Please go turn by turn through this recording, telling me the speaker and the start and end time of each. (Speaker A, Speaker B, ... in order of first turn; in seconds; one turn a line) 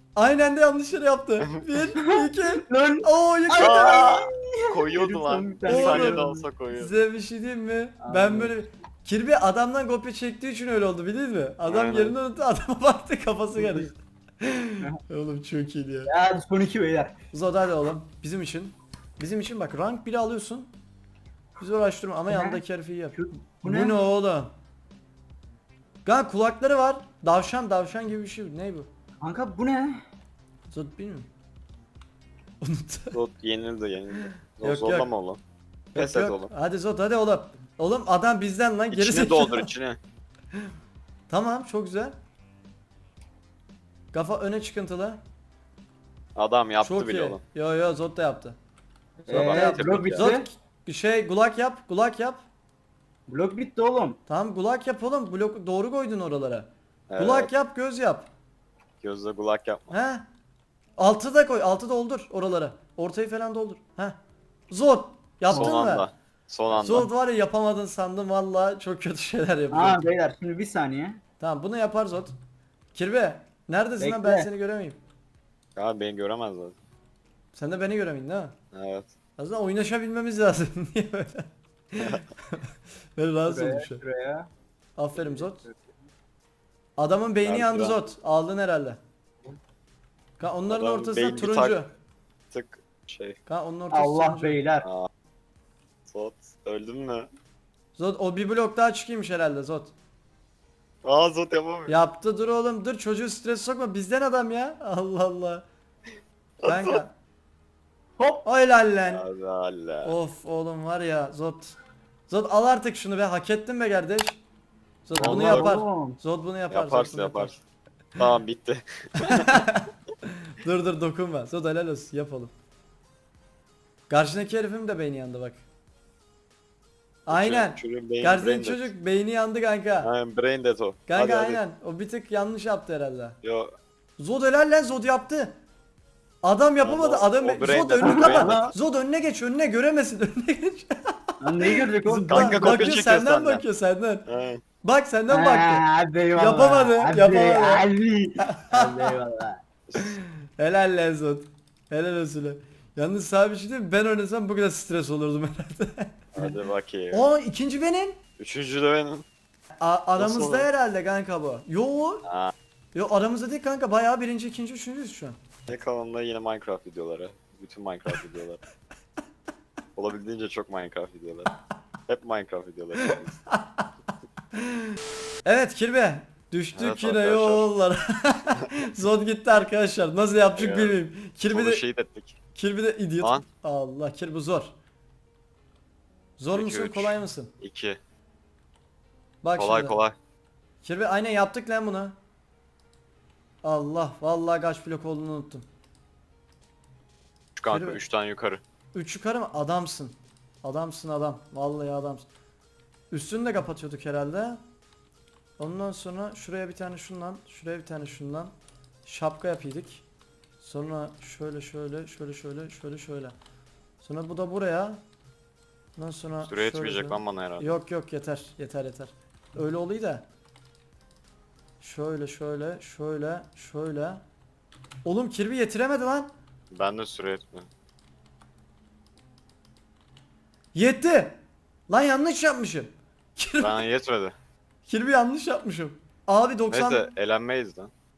Speaker A: 0.2-4.2
Speaker B: 1.4-1.8
Speaker C: 2.0-6.4
Speaker B: 3.6-7.0
Speaker A: 5.7-16.1
Speaker C: 8.0-8.5
Speaker B: 11.7-12.2
Speaker C: 16.1-17.2
Speaker A: 17.3-20.7
Speaker A: 21.6-24.5
Speaker C: 22.3-22.6
Speaker C: 23.1-24.0
Speaker A: 26.1-28.9
Speaker C: 29.2-30.0
Speaker A: 30.7-31.3
Speaker A: 32.6-33.2
Speaker B: 33.1-35.4
Speaker A: 34.6-35.1
Speaker A: 35.9-39.7
Speaker B: 35.9-36.5
Speaker B: 38.9-40.0
Speaker A: 41.3-42.1
Speaker A: 44.1-45.2
Speaker B: 46.4-47.4
Speaker A: 46.8-48.6
Speaker A: 49.2-52.4
Speaker B: 49.3-50.3
Speaker C: 49.3-50.5
Speaker C: 53.3-54.2
Speaker A: 54.3-58.3
Speaker B: 57.1-57.5
Speaker B: 59.0-59.9
Speaker A: 59.9-60.2
Speaker A: 61.0-64.2
Speaker A: 64.7-66.1
Speaker C: 65.5-65.8
Speaker B: 65.5-67.1
Speaker A: 66.7-70.0
Speaker C: 69.7-71.2
Speaker A: 71.4-72.4
Speaker A: 72.9-75.0
Speaker C: 74.0-74.5
Speaker B: 75.8-76.8
Speaker A: 77.5-78.5
Speaker B: 78.7-79.1
Speaker A: 79.4-84.0
Speaker B: 82.0-82.3
Speaker C: 83.5-84.5
Speaker A: 85.0-85.6
Speaker C: 85.2-85.8
Speaker A: 87.0-89.0
Speaker B: 87.4-88.0
Speaker A: 90.4-91.9
Speaker B: 90.7-91.8
Speaker B: 92.5-93.4
Speaker A: 93.5-94.6
Speaker C: 93.9-94.9
Speaker B: 94.8-95.1
Speaker B: 96.1-97.3
Speaker A: 98.0-99.9
Speaker B: 101.0-102.0
Speaker A: 101.9-105.7
Speaker B: 106.6-107.0
Speaker A: 106.6-107.2
Speaker C: 108.2-108.4
Speaker A: 108.4-109.2
Speaker B: 109.1-110.2
Speaker A: 110.0-111.8
Speaker A: 112.3-114.4
Speaker A: 115.1-117.6
Speaker B: 115.2-115.7
Speaker C: 115.2-116.2
Speaker B: 116.7-117.6
Speaker B: 118.2-119.7
Speaker A: 119.2-122.5
Speaker A: 124.1-125.6
Speaker A: 127.3-130.1
Speaker B: 127.3-128.9
Speaker B: 130.0-131.6
Speaker A: 131.1-133.4
Speaker B: 133.4-133.7
Speaker A: 134.2-135.6
Speaker A: 136.4-144.3
Speaker B: 136.8-138.8
Speaker C: 138.0-138.7
Speaker C: 141.4-142.9
Speaker B: 142.3-143.6
Speaker B: 144.3-144.6
Speaker A: 144.8-147.9
Speaker C: 145.3-149.6
Speaker A: 148.4-149.1
Speaker A: 150.0-156.5
Speaker B: 156.3-157.3
Speaker A: 157.1-158.2
Speaker B: 158.4-159.2
Speaker A: 159.8-162.3
Speaker B: 160.2-160.7
Speaker B: 162.3-162.5
Speaker A: 162.9-165.4
Speaker B: 165.7-168.6
Speaker B: 169.9-171.5
Speaker B: 172.1-173.4
Speaker A: 173.0-173.8
Speaker A: 174.6-181.8
Speaker B: 176.8-177.7
Speaker B: 180.6-181.0
Speaker B: 181.5-182.4
Speaker A: 182.6-184.7
Speaker A: 186.4-187.5
Speaker B: 186.5-188.0
Speaker A: 189.4-190.0
Speaker B: 189.6-190.2
Speaker A: 190.8-192.2
Speaker A: 193.6-195.7
Speaker B: 197.6-198.6
Speaker A: 197.7-198.0
Speaker A: 198.9-202.3
Speaker A: 203.1-204.6
Speaker A: 205.6-208.5
Speaker A: 209.1-210.0
Speaker A: 210.6-213.3
Speaker A: 214.0-215.0
Speaker A: 216.0-220.2
Speaker B: 216.4-217.8
Speaker A: 221.8-224.2
Speaker A: 225.1-226.3
Speaker B: 226.7-227.7
Speaker A: 230.7-233.8
Speaker B: 233.6-234.4
Speaker A: 234.9-237.1
Speaker B: 236.7-237.9